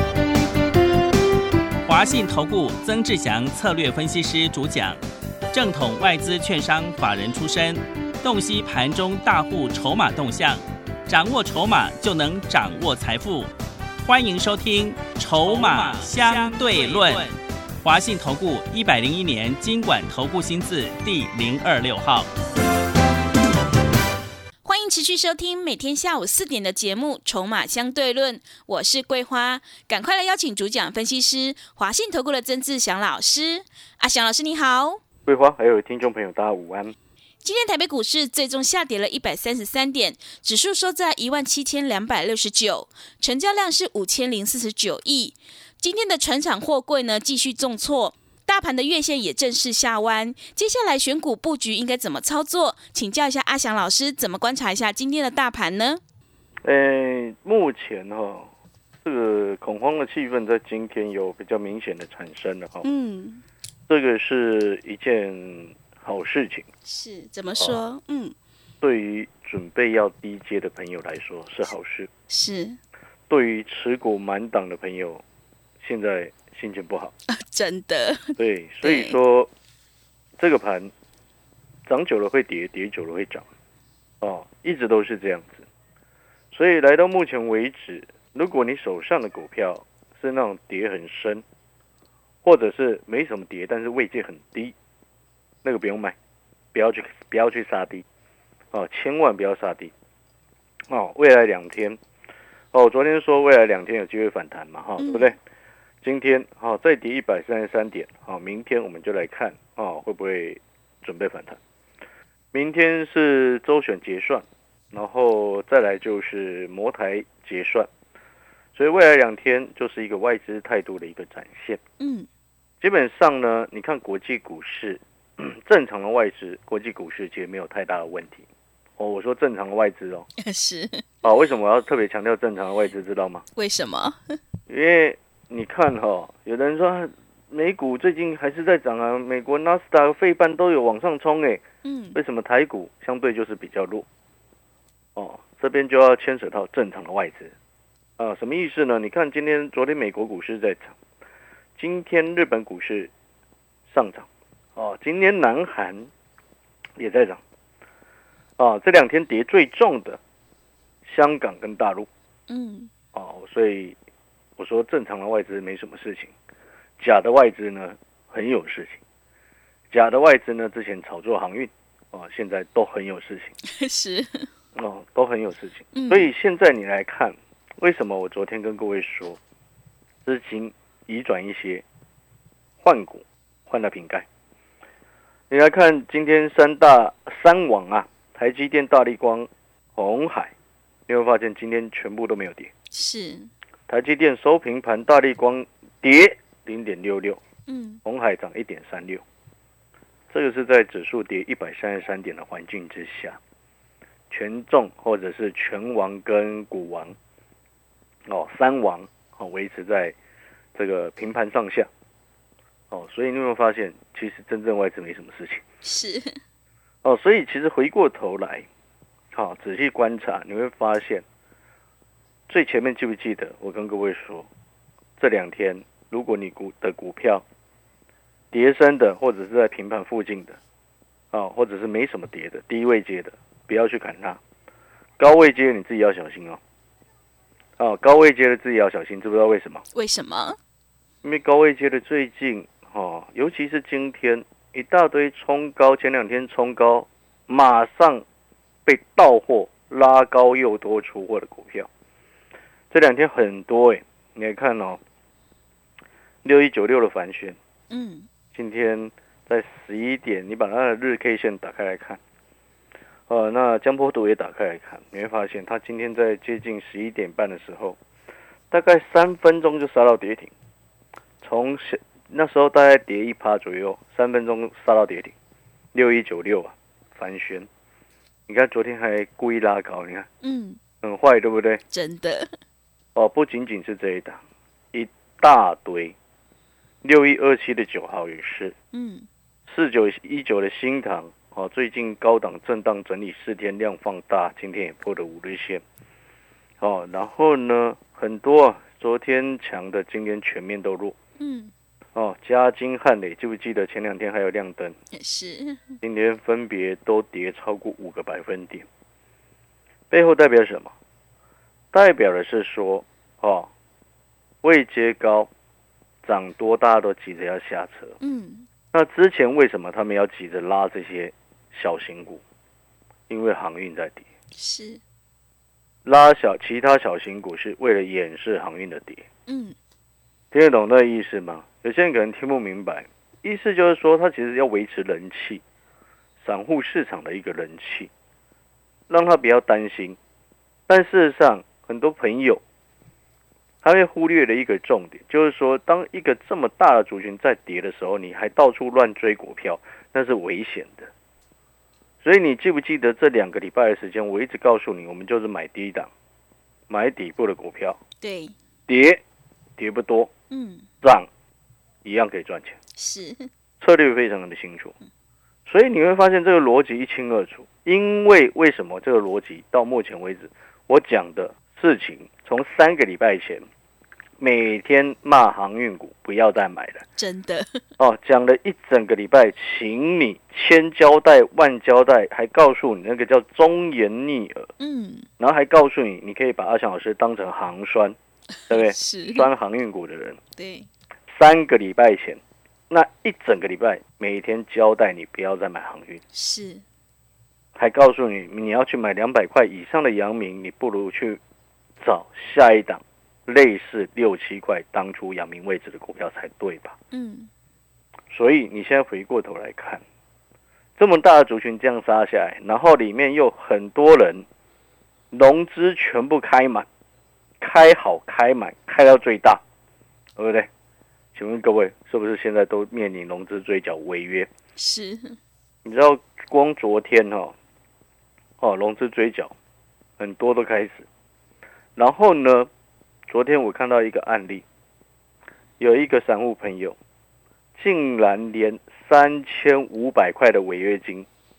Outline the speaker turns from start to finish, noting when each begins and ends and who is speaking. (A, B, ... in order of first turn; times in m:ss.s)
0:01.9-0:05.0 A
0:05.5-0:13.5 A
0:14.0-0:22.3 A
0:24.6-0:35.0 B
0:35.3-0:37.0 C
0:37.4-0:56.0 B
0:56.6-0:58.5 C
0:59.0-1:02.9 C
1:02.8-1:03.4 B
1:03.9-1:06.7 C
1:06.9-1:08.4 B
1:07.5-1:07.8 C
1:08.8-1:12.1 C
1:12.3-1:12.8 B
1:13.3-1:15.2 C
1:15.8-1:17.1 C
1:17.3-1:19.2 B
1:18.4-1:19.5 C
1:20.4-1:20.9 C
1:21.9-1:23.4 C
1:24.2-1:25.7 C
1:26.5-1:31.4 C
1:32.4-1:34.7 C
1:35.6-1:36.2 C
1:36.7-1:38.0 C
1:38.7-1:39.9 C
1:40.9-1:42.0 C
1:42.7-1:45.4 C
1:45.0-1:45.3 B
1:46.0-1:51.6 C
1:52.5-1:57.9 C
1:58.8-2:01.8 C
2:02.0-2:02.3 B
2:02.8-2:08.4 C
2:09.0-2:10.3 C
2:10.4-2:11.0 B
2:11.2-2:13.4 C
2:13.6-2:14.4 B
2:14.7-2:21.6 C
2:21.8-2:22.2 B
2:22.2-2:24.1 C
2:25.2-2:27.5 C
2:28.2-2:30.9 C
2:31.8-2:33.1 C
2:33.9-2:36.1 C
2:37.0-2:37.4 C
2:38.6-2:40.2 C
2:41.0-2:42.1 C
2:42.5-2:42.9 B
2:43.1-2:44.0 C
2:44.6-2:46.3 C
2:47.0-2:49.0 C
2:49.9-2:53.6 C
2:53.6-2:54.5 B
2:54.8-2:59.4 C
2:55.9-2:56.3 B
3:00.2-3:01.8 C
3:02.8-3:04.3 C
3:05.5-3:10.5 C
3:11.1-3:12.7 C
3:12.9-3:13.5 B
3:13.9-3:17.4 C
3:17.7-3:18.0 B
3:18.0-3:19.2 C
3:20.3-3:23.4 C
3:24.3-3:27.2 C
3:28.3-3:30.2 C
3:30.8-3:31.9 C
3:32.9-3:35.6 C
3:35.8-3:36.4 B
3:37.0-3:38.7 C
3:39.3-3:41.2 C
3:42.5-3:44.5 C
3:45.2-3:47.4 C
3:48.5-3:50.6 C
3:51.3-3:54.4 C
3:55.2-3:56.6 C
3:57.8-3:59.8 C
3:59.9-4:00.6 B
4:01.2-4:08.2 C
4:08.8-4:11.9 C
4:12.9-4:15.0 C
4:16.4-4:17.6 C
4:17.9-4:18.3 B
4:18.5-4:22.2 C
4:23.3-4:28.0 C
4:28.7-4:30.5 C
4:31.4-4:35.3 C
4:35.9-4:37.7 C
4:38.5-4:40.3 C
4:40.4-4:40.8 B
4:41.0-4:41.8 C
4:41.9-4:42.5 B
4:43.2-4:44.4 C
4:44.9-4:46.2 C
4:47.0-4:48.8 C
4:48.9-4:49.3 B
4:49.7-4:55.8 C
4:56.8-5:01.2 C
5:01.4-5:01.7 B
5:02.2-5:05.0 C
5:05.1-5:06.0 B
5:06.0-5:08.8 C
5:10.1-5:10.9 C
5:11.9-5:13.7 C
5:14.6-5:15.5 C
5:16.2-5:18.2 C
5:18.2-5:18.7 B
5:18.9-5:22.4 C
5:23.3-5:24.3 C
5:24.6-5:25.0 B
5:26.0-5:29.2 C
5:29.5-5:29.8 B
5:30.5-5:35.6 C
5:36.4-5:38.1 C
5:39.1-5:40.2 C
5:40.9-5:42.6 C
5:43.8-5:51.1 C
5:52.2-5:56.1 C
5:56.9-5:58.0 C
5:58.2-5:58.6 B
5:58.9-5:59.2 C
5:59.8-6:00.3 C
6:00.5-6:00.9 B
6:01.0-6:01.3 C
6:02.0-6:02.8 C
6:03.0-6:03.5 B
6:03.8-6:04.9 C
6:05.7-6:13.7 C
6:14.4-6:17.0 C
6:17.2-6:17.8 B
6:18.0-6:24.7 C
6:24.8-6:25.3 B
6:25.4-6:28.2 C
6:28.7-6:29.5 B
6:28.7-6:30.4 C
6:30.6-6:30.9 B
6:31.3-6:36.2 C
6:36.3-6:36.8 B
6:37.8-6:41.4 C
6:42.0-6:47.0 C
6:47.1-6:47.5 B
6:48.3-6:50.0 C
6:51.0-6:54.5 C
6:55.3-6:56.9 C
6:57.6-6:59.6 C
7:00.4-7:00.7 C
7:01.4-7:04.5 C
7:04.8-7:05.4 B
7:05.8-7:07.6 C
7:08.6-7:09.5 C
7:10.2-7:11.1 C
7:12.0-7:12.7 C
7:13.3-7:14.6 C
7:15.8-7:17.0 C
7:17.8-7:21.3 C